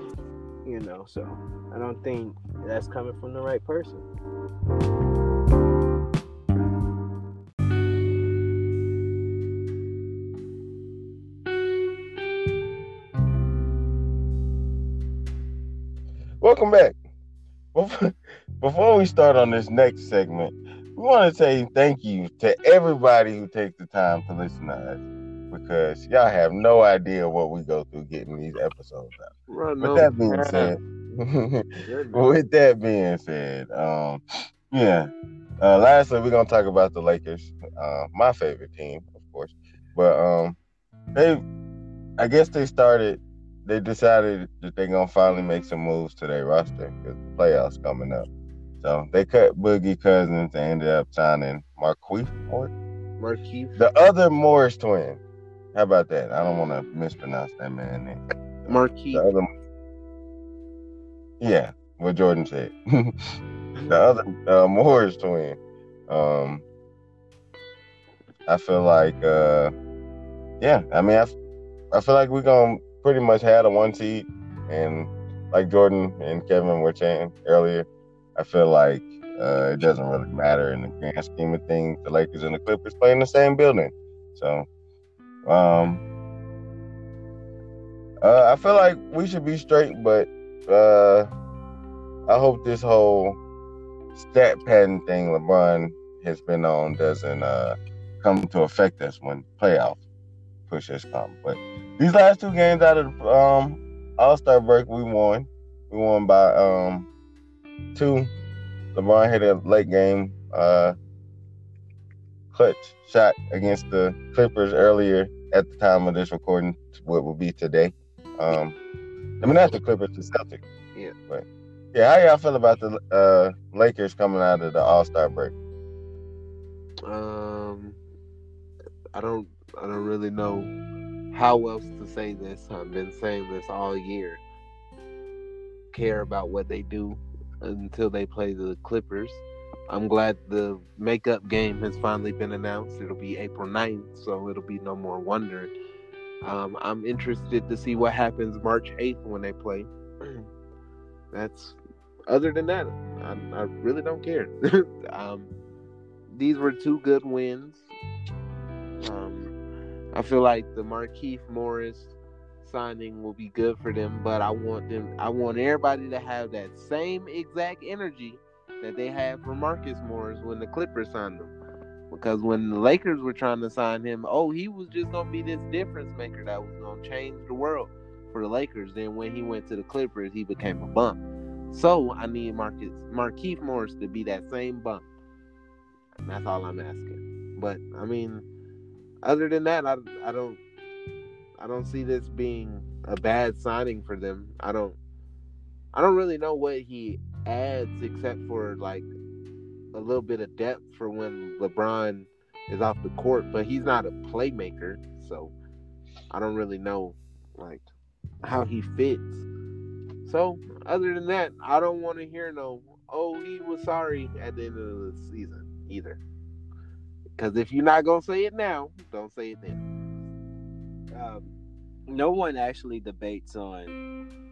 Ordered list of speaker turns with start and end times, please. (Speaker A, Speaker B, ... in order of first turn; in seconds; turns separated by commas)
Speaker A: 0.6-4.0, Speaker B: 16.4-16.9, Speaker B: 17.7-35.1, Speaker C: 29.5-30.7, Speaker A: 31.8-32.2, Speaker B: 35.6-40.6, Speaker B: 41.1-41.4, Speaker B: 42.2-48.3, Speaker B: 48.8-52.7, Speaker C: 53.2-53.8, Speaker B: 53.8-55.2, Speaker B: 55.7-59.5, Speaker C: 58.7-59.2, Speaker B: 61.4-63.1, Speaker B: 63.9-66.6, Speaker B: 68.5-69.7, Speaker B: 70.6-71.3, Speaker B: 71.9-84.7, Speaker B: 85.5-86.0, Speaker B: 88.2-91.3, Speaker B: 92.3-93.4, Speaker B: 94.1-100.0, Speaker B: 100.7-107.1, Speaker B: 107.9-108.3, Speaker B: 108.9-110.9, Speaker B: 112.5-118.8, Speaker B: 119.4-120.6, Speaker B: 121.3-125.5, Speaker C: 127.0-128.0, Speaker C: 129.1-130.7, Speaker C: 131.3-134.4, Speaker C: 135.9-145.7, Speaker C: 146.4-150.5, Speaker C: 151.3-155.5, Speaker C: 156.3-157.8, Speaker C: 159.0-159.5, Speaker C: 160.1-171.5, Speaker C: 172.1-181.2, Speaker C: 181.7-185.1, Speaker C: 186.2-188.4, Speaker C: 189.2-190.6, Speaker C: 191.6-194.9, Speaker C: 195.9-199.1, Speaker C: 199.9-205.5, Speaker C: 206.3-207.8, Speaker C: 208.4-209.4, Speaker C: 210.2-216.2, Speaker C: 217.3-219.8, Speaker A: 221.1-221.5, Speaker A: 222.1-224.0